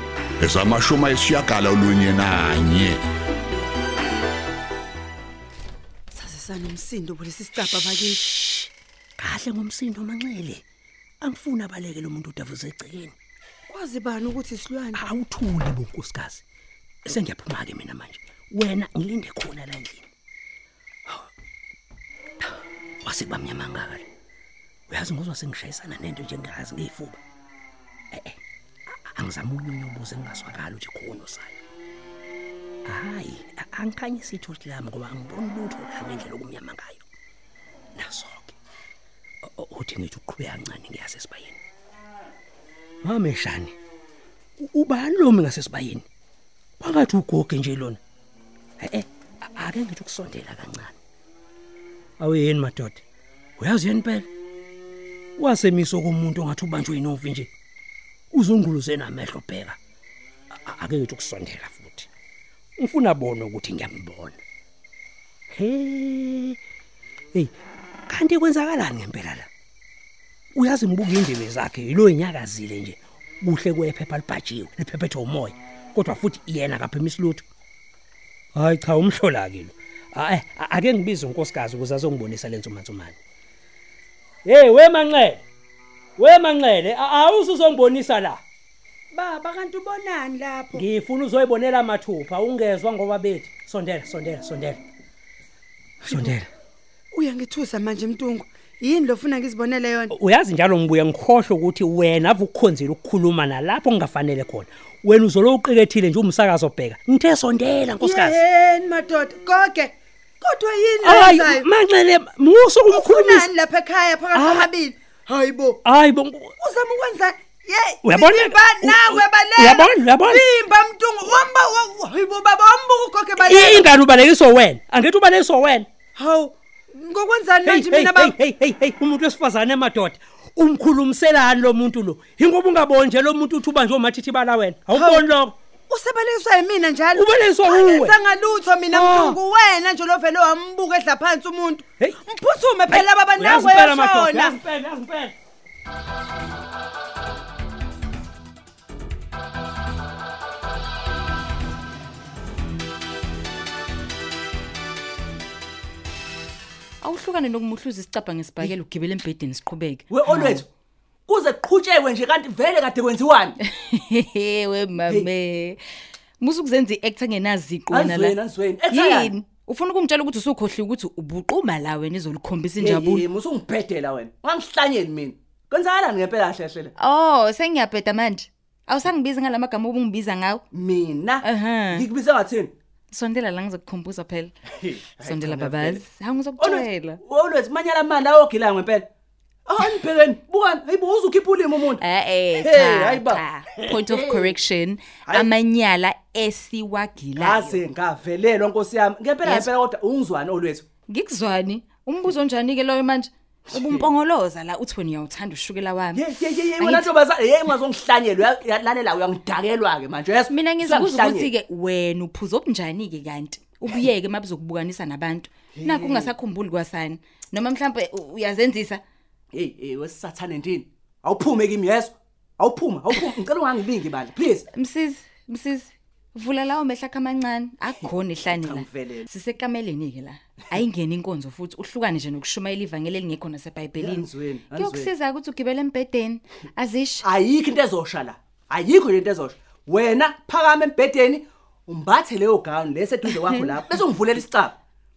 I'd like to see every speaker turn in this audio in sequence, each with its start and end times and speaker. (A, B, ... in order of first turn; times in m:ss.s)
0:00.4-0:03.0 A
0:06.1-0:08.7 B
0:09.2-0:10.6 C
0:11.2-0:13.1 C
0:13.7-0:15.0 B
0:14.9-0:16.4 C
0:17.0-0:20.1 C
0:23.0-0:24.0 C
0:24.9-0:27.2 C
0:28.1-0:28.4 C
0:28.9-0:31.6 C
0:32.8-0:37.0 C
0:38.0-0:38.5 C
0:39.4-0:41.6 C
0:43.0-0:43.7 C
0:44.6-0:46.0 C
0:46.8-0:48.0 C
0:48.8-0:51.0 C
0:52.2-0:53.0 C
0:53.6-0:54.3 C
0:55.4-0:57.5 C
0:58.3-0:59.8 C
1:00.5-1:02.1 C
1:02.8-1:04.4 C
1:05.5-1:06.6 C
1:08.1-1:09.5 C
1:10.5-1:17.4 C
1:18.5-1:23.2 C
1:24.4-1:25.4 C
1:26.2-1:28.4 C
1:29.1-1:30.8 B
1:30.7-1:34.8 C
1:36.0-1:36.4 B
1:36.0-1:36.5 C
1:37.1-1:40.1 B
1:40.1-1:48.4 C
1:48.0-1:51.6 B
1:51.0-1:53.5 C
1:52.9-1:55.8 B
1:54.3-1:54.7 C
1:55.8-1:56.5 C
1:56.6-2:03.9 B
1:58.0-2:00.4 C
2:03.4-2:05.9 C
2:06.2-2:08.4 B
2:07.6-2:15.6 C
2:14.9-2:15.2 B
2:15.9-2:24.6 B
2:17.1-2:18.2 C
2:18.9-2:19.4 C
2:22.9-2:25.3 C
2:37.0-2:40.6 D
2:40.1-2:40.7 E
2:41.3-2:43.6 E
2:43.6-2:45.8 D
2:46.4-2:48.4 D
2:47.9-2:49.3 E
2:48.9-2:53.3 D
2:52.8-2:56.9 E
2:57.0-3:00.6 D
3:00.7-3:02.7 E
3:01.4-3:02.1 D
3:03.1-3:04.5 D
3:04.8-3:06.0 E
3:05.2-3:07.2 D
3:06.6-3:09.1 E
3:09.7-3:12.0 E
3:12.0-3:17.8 D
3:12.5-3:14.5 E
3:17.4-3:20.8 E
3:19.4-3:19.7 D
3:21.1-3:27.1 D
3:23.7-3:24.0 E
3:26.1-3:31.5 E
3:30.5-3:39.0 D
3:35.8-3:36.3 E
3:39.5-3:44.6 E
3:44.7-3:57.2 D
3:48.5-3:49.3 E
3:54.0-3:55.1 E
3:57.2-4:04.7 E
4:03.3-4:03.7 D